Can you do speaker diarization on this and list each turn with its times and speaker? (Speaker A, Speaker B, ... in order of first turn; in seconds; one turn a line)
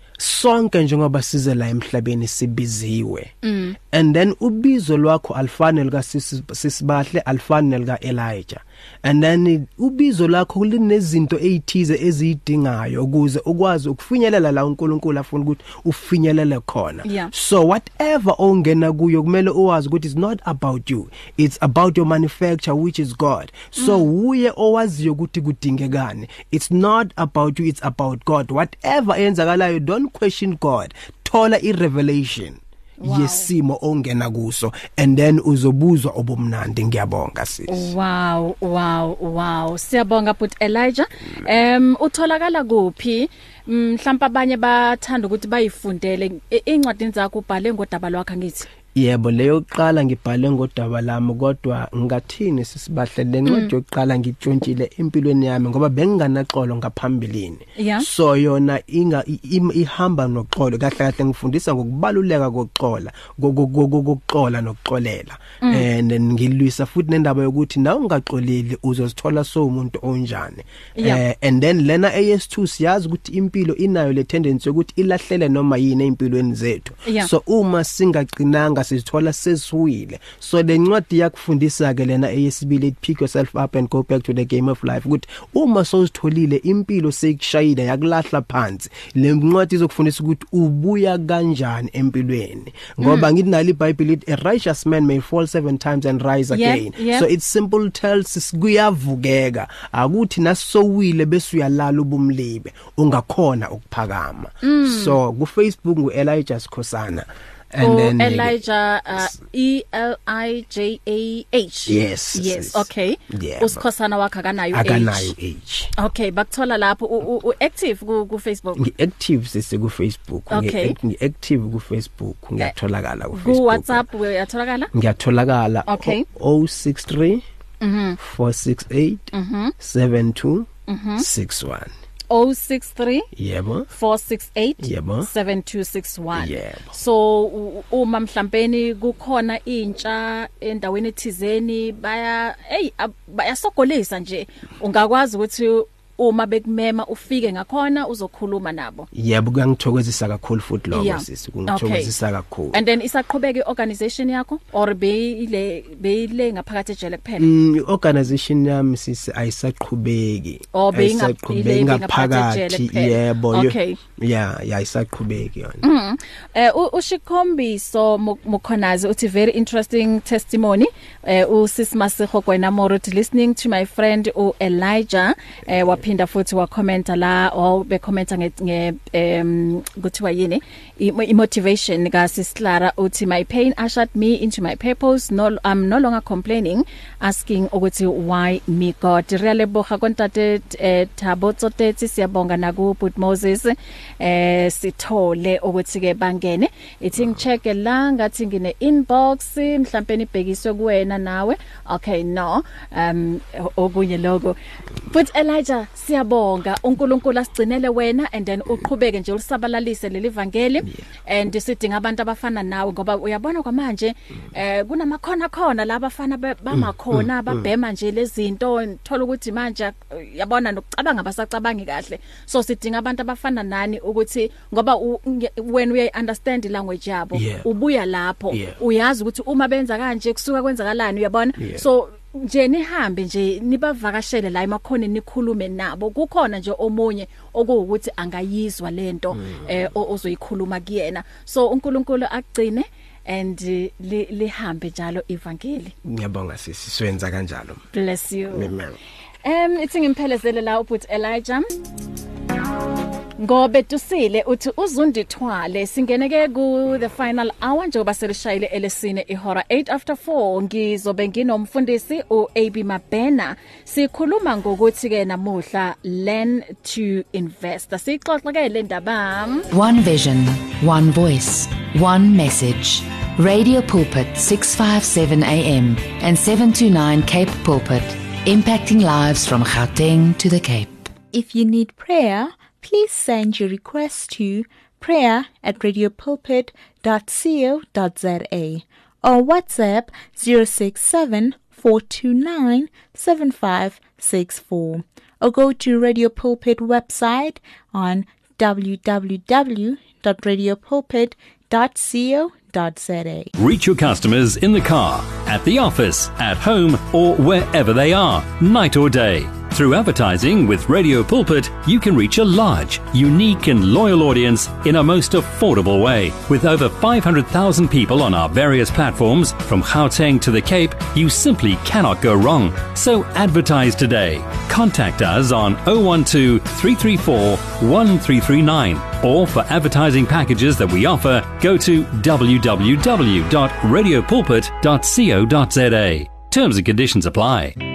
Speaker A: 0.2-37.9
Speaker B: 3.4-3.8
Speaker B: 17.1-17.3
Speaker B: 23.8-24.1
Speaker B: 33.0-33.5
Speaker B: 37.7-48.7
Speaker A: 49.0-108.6
Speaker B: 53.5-53.7
Speaker B: 57.8-58.1
Speaker B: 65.6-65.9
Speaker B: 96.5-97.3
Speaker B: 104.6-105.2
Speaker B: 107.8-115.3
Speaker A: 111.9-113.8
Speaker A: 114.7-115.9
Speaker B: 116.0-118.9
Speaker A: 118.8-124.0
Speaker B: 120.5-121.0
Speaker B: 123.3-124.9
Speaker A: 124.9-127.4
Speaker B: 125.9-126.3
Speaker B: 127.8-128.2
Speaker A: 128.2-131.9
Speaker B: 129.3-129.7
Speaker B: 130.9-131.3
Speaker B: 132.3-133.3
Speaker A: 133.3-133.9
Speaker B: 133.9-149.1
Speaker A: 134.8-135.3
Speaker A: 136.3-136.9
Speaker A: 149.1-152.8
Speaker B: 150.9-152.1
Speaker B: 152.7-157.5
Speaker A: 157.4-165.8
Speaker B: 160.7-164.0
Speaker B: 165.8-204.6
Speaker B: 205.1-245.9
Speaker A: 216.7-217.7
Speaker A: 227.3-227.7
Speaker A: 228.5-228.8
Speaker A: 231.6-231.8
Speaker A: 239.3-239.7
Speaker A: 246.1-247.9
Speaker B: 247.9-248.7
Speaker A: 248.5-249.0
Speaker B: 249.4-251.7
Speaker B: 253.4-269.7
Speaker C: 269.7-281.1
Speaker D: 281.3-303.5
Speaker E: 303.6-337.8